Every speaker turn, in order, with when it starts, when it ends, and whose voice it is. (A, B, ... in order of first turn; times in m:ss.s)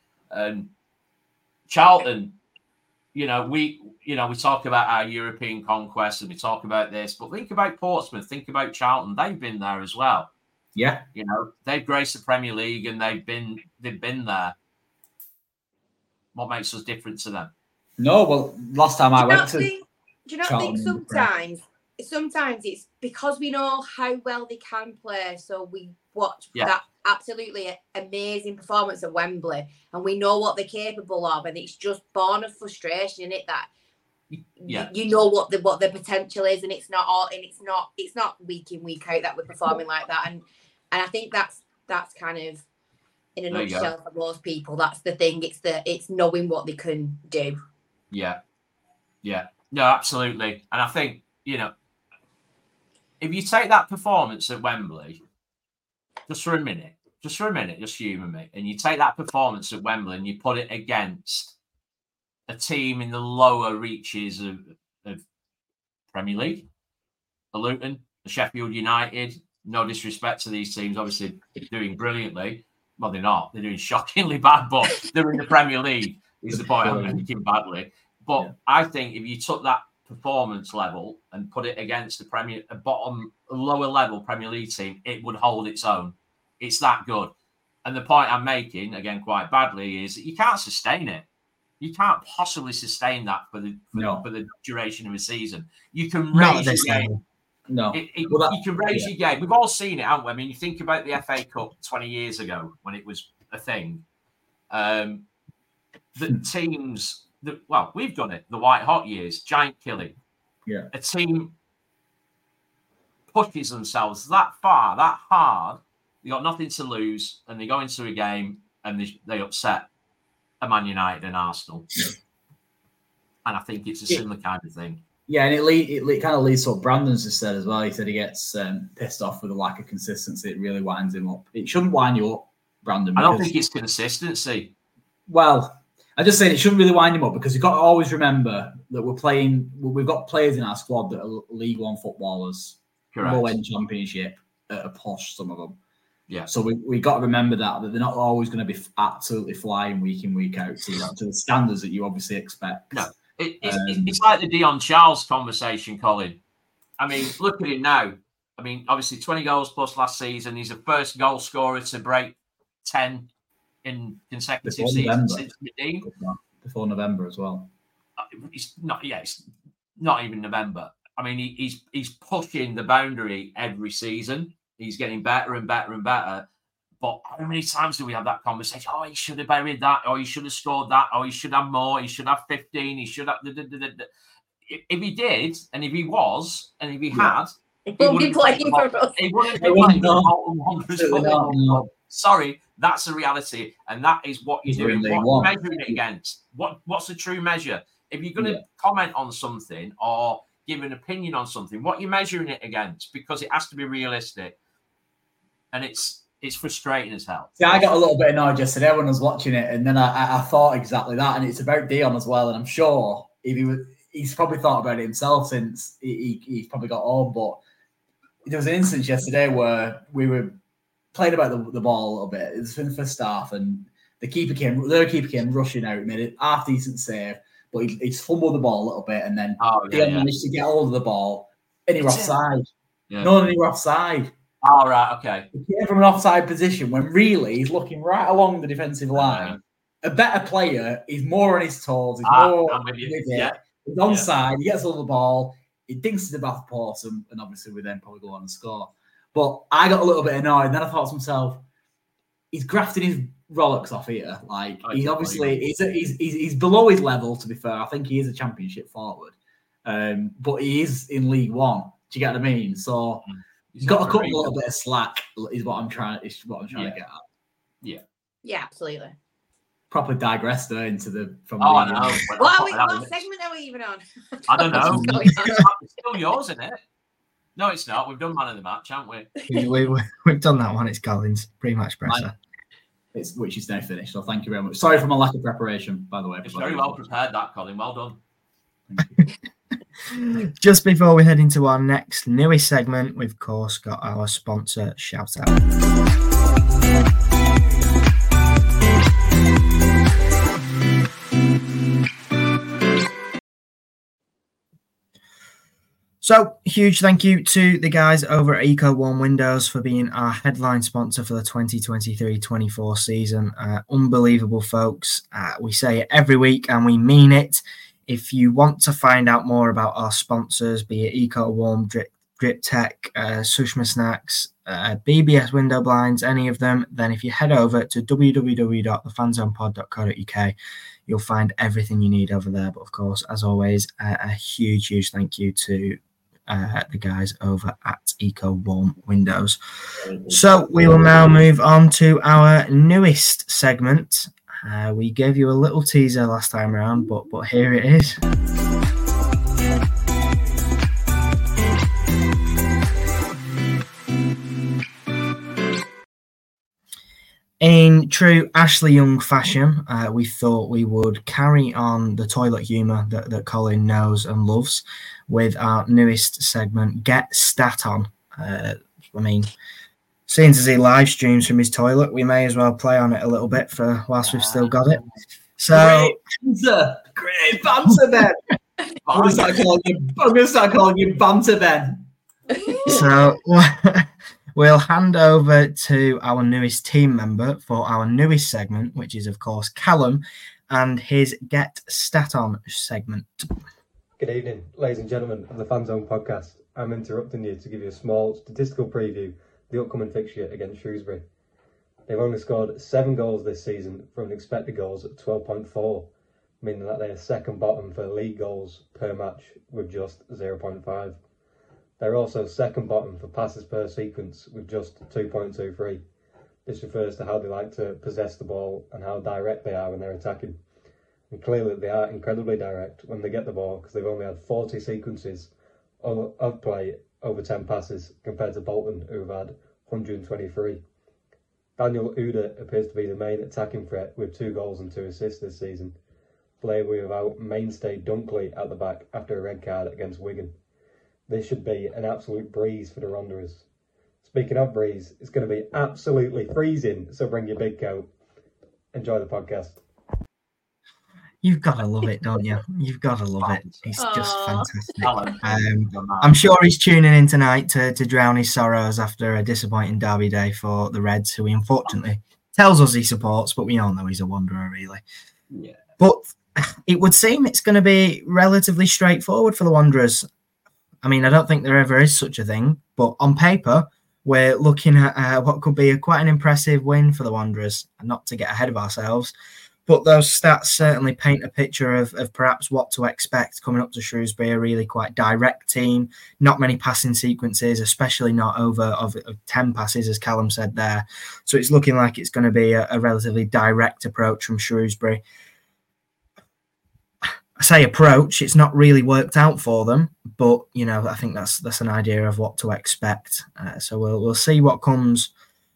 0:00.3-0:00.7 A
0:01.7-0:02.3 A
0:03.1-0:10.3 A
0:10.7-0:11.0 B
0:11.1-0:14.5 A
0:16.3-0:17.5 A
0:18.0-0:19.7 B
0:19.2-0:33.7 C
0:20.4-0:21.3 B
0:34.6-0:42.6 C
0:43.4-0:47.6 C
0:43.5-0:43.9 A
0:48.1-0:48.4 A
0:49.2-0:51.7 A
0:53.2-0:55.2 A
0:56.3-1:01.6 A
1:02.5-1:05.2 A
1:06.1-1:06.7 A
1:07.5-1:27.3 A
1:16.5-1:17.2 B
1:27.8-1:31.2 A
1:31.8-1:37.1 A
1:33.9-1:34.2 B
1:36.3-1:37.2 D
1:37.7-1:39.1 B
1:37.9-1:44.0 A
1:44.7-1:45.2 A
1:46.2-1:50.2 A
1:50.9-1:51.5 A
1:53.3-1:59.9 A
2:00.6-2:02.0 A
2:03.4-2:05.0 A
2:05.3-2:13.5 B
2:13.2-2:14.7 A
2:15.3-2:25.8 B
2:23.1-2:23.6 A
2:26.5-2:33.1 B
2:32.9-2:36.4 A
2:33.6-2:34.1 B
2:37.0-2:43.3 A
2:43.8-2:46.1 A
2:44.6-2:45.4 B
2:46.0-2:47.7 B
2:48.3-2:49.4 A
2:50.0-2:56.4 A
2:57.0-3:04.1 A
3:04.7-3:24.6 A
3:07.1-3:07.4 B
3:07.9-3:09.2 C
3:09.5-3:10.3 B
3:11.0-3:11.8 B
3:14.7-3:16.0 B
3:25.7-3:27.9 A
3:27.6-3:37.6 B
3:38.4-3:40.6 B
3:41.1-3:52.7 B
3:49.6-3:50.3 A
3:52.0-3:52.4 A
3:53.2-3:54.3 B
3:54.6-3:55.5 A
3:55.5-4:11.6 B
3:59.1-3:59.6 A
4:02.2-4:04.3 A
4:12.5-4:23.2 B
4:14.8-4:15.6 A
4:23.7-4:24.5 A
4:23.8-4:27.2 B
4:26.7-4:27.0 A
4:28.4-4:29.1 C
4:29.9-4:32.2 B
4:31.6-4:33.1 A
4:32.4-4:35.6 C
4:34.5-4:36.8 A
4:34.8-4:35.3 D
4:37.6-4:39.3 A
4:39.5-4:42.3 D
4:43.1-4:47.1 B
4:46.4-4:48.2 A
4:48.9-4:49.2 B
4:50.1-4:55.6 D
5:06.2-5:30.5 D
5:31.1-5:39.6 D
5:40.0-5:40.4 B
5:40.3-5:48.2 D
5:57.6-6:09.5 D
6:10.3-6:15.0 D
6:14.3-6:15.1 A
6:15.6-6:16.2 D
6:15.7-6:18.4 B
6:19.0-6:19.6 A
6:19.1-6:22.1 B
6:22.5-6:23.0 C
6:22.8-6:33.5 D
6:34.2-6:41.2 E
6:42.1-6:46.1 E
6:46.6-6:51.2 E
6:52.0-6:56.0 E
6:56.6-7:00.6 E
7:01.3-7:10.8 E
7:11.8-7:16.0 E
7:16.6-7:20.6 E
7:21.3-7:23.6 E
7:24.2-7:28.1 E
7:28.9-7:29.8 E
7:31.4-7:45.0 D
7:33.4-7:33.8 A
7:34.0-7:34.7 C
7:35.0-7:36.4 A
7:45.5-7:45.8 A
7:46.0-7:50.2 D
7:51.0-7:59.3 D
7:59.9-8:15.2 D
8:17.6-8:25.3 D